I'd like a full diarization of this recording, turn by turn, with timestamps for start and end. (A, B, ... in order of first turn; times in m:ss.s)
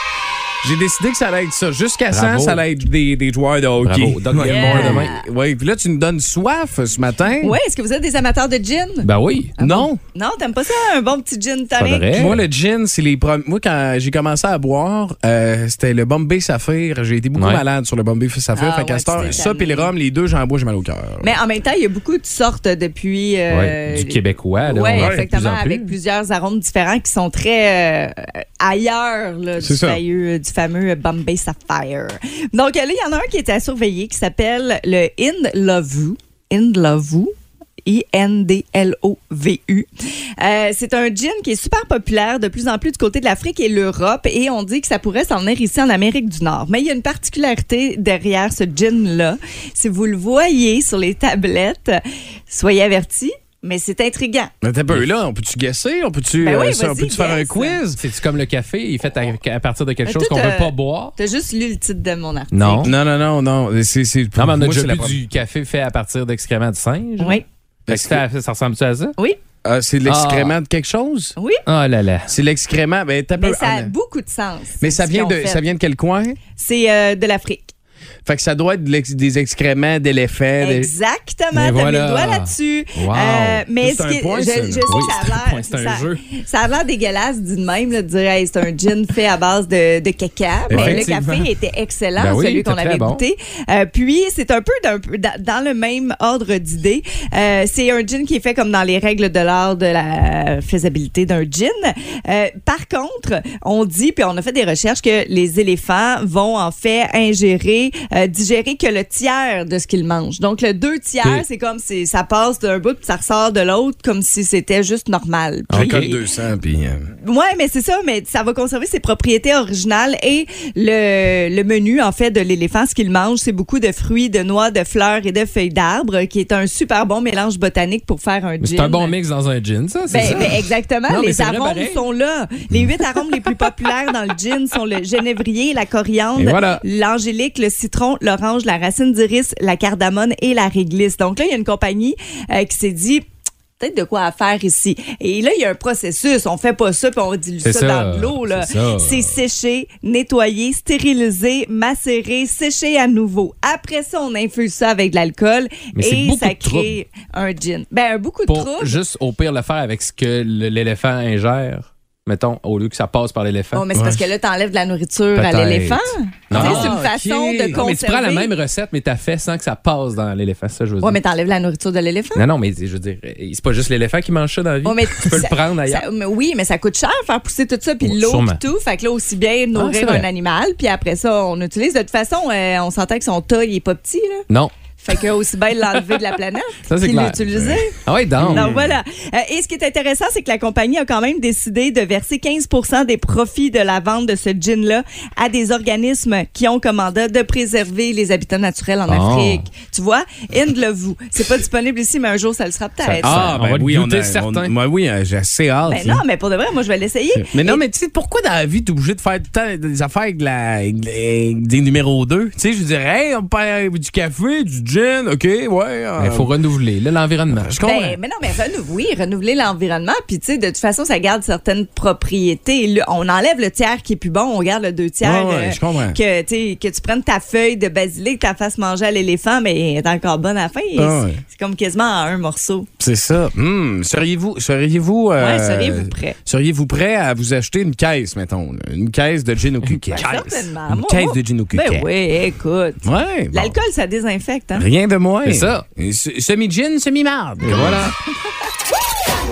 0:00.6-0:07.6 A
0:02.1-0:02.6 B
0:03.8-0:05.1 B
0:04.4-0:05.3 C
0:07.4-0:12.3 C
0:09.0-0:09.5 B
0:09.6-0:10.0 A
0:11.8-0:12.4 B
0:12.1-0:21.3 A
0:17.4-0:17.6 B
0:18.6-0:19.9 C
0:21.2-0:54.5 C
0:23.5-0:25.9 B
0:25.0-0:25.2 A
0:29.6-0:30.0 A
0:54.6-0:58.0 A
0:56.4-0:57.8 C
0:58.0-1:01.2 B
1:00.1-1:02.9 C
1:02.5-1:02.9 B
1:02.8-1:05.2 A
1:04.4-1:09.2 B
1:07.2-1:07.4 C
1:07.9-1:08.2 A
1:09.6-1:11.4 A
1:10.0-1:10.6 B
1:11.7-1:12.3 B
1:12.3-1:13.9 A
1:13.4-1:15.6 C
1:14.8-1:16.4 A
1:16.6-1:17.7 C
1:18.2-1:20.9 A
1:20.6-1:56.2 C
1:21.5-1:23.6 B
1:23.8-1:25.0 A
1:24.9-1:26.2 B
1:30.7-1:31.4 A
1:30.7-1:31.2 B
1:32.2-1:33.2 B
1:55.7-1:56.2 B
1:55.7-1:57.1 A
1:57.2-2:09.1 C
2:08.6-2:12.0 B
2:10.1-2:23.2 C
2:16.4-2:16.8 B
2:23.8-2:39.0 C
2:27.6-2:29.4 B
2:36.0-2:36.9 B
2:38.5-2:43.8 B
2:43.7-2:48.5 C
2:44.0-2:44.2 A
2:45.4-2:47.0 B
2:46.5-2:47.9 A
2:47.7-2:51.2 B
2:51.0-2:52.4 C
2:52.4-2:56.1 B
2:54.8-3:04.4 C
2:58.0-2:58.6 B
2:59.8-3:00.3 B
3:05.0-3:08.0 C
3:06.9-3:08.7 B
3:07.5-3:07.8 A
3:08.4-3:09.0 A
3:08.5-3:23.4 C
3:19.1-3:19.7 B
3:23.0-3:24.7 B
3:23.2-3:26.2 A
3:25.9-3:27.8 C
3:27.4-3:36.5 A
3:36.2-3:37.7 B
3:37.5-3:38.2 A
3:37.8-3:52.9 C
3:45.2-3:46.2 A
3:51.0-3:51.4 A
3:53.0-4:02.1 A
3:55.4-3:56.4 C
4:00.2-4:03.0 C
4:03.0-4:03.8 A
4:03.5-4:04.9 C
4:04.8-4:08.1 A
4:05.4-4:05.8 B
4:07.6-4:08.2 B